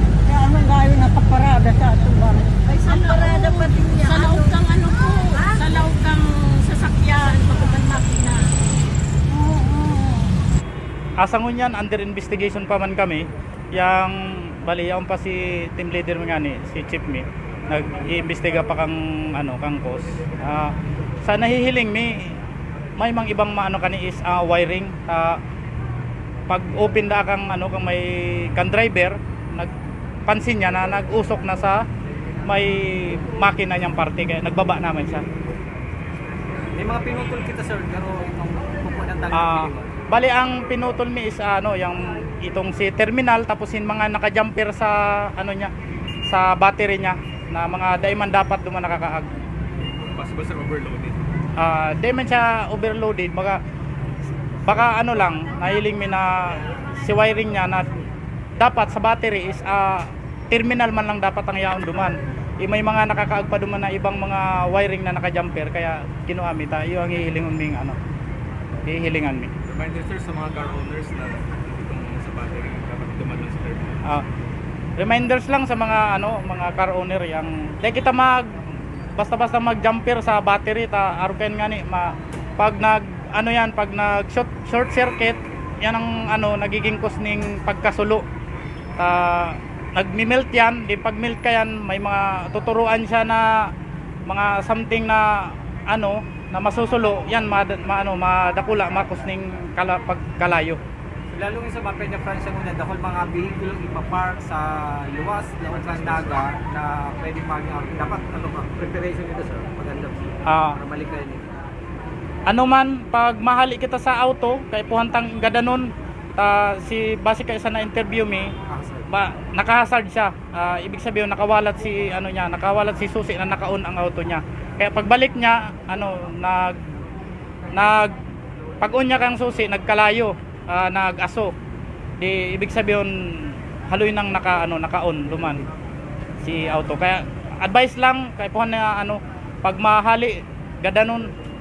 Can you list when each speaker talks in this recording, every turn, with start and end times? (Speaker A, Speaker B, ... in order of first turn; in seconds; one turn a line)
Speaker A: 0.2-2.5
Speaker B: 2.6-8.4
Speaker A: 9.4-10.0
Speaker C: 11.2-20.7
Speaker C: 21.2-22.3
Speaker C: 23.0-25.4
Speaker C: 26.5-29.7
Speaker C: 30.3-31.8
Speaker C: 32.5-35.2
Speaker D: 36.8-39.9
Speaker C: 39.3-45.7
Speaker C: 46.3-49.3
Speaker E: 49.8-51.2
Speaker C: 51.6-53.6
Speaker C: 54.6-57.9
Speaker C: 58.6-68.0
Speaker C: 68.8-69.5
Speaker E: 69.7-74.0
Speaker C: 75.0-78.5
Speaker C: 79.2-88.2
Speaker C: 89.0-93.7
Speaker C: 94.3-100.8
Speaker D: 101.3-111.5
Speaker E: 105.7-106.4
Speaker C: 110.5-110.8
Speaker C: 112.5-118.5
Speaker D: 118.7-119.1
Speaker C: 119.1-126.8
Speaker C: 127.7-128.2
Speaker C: 128.8-131.5
Speaker C: 132.2-135.7
Speaker C: 136.4-141.3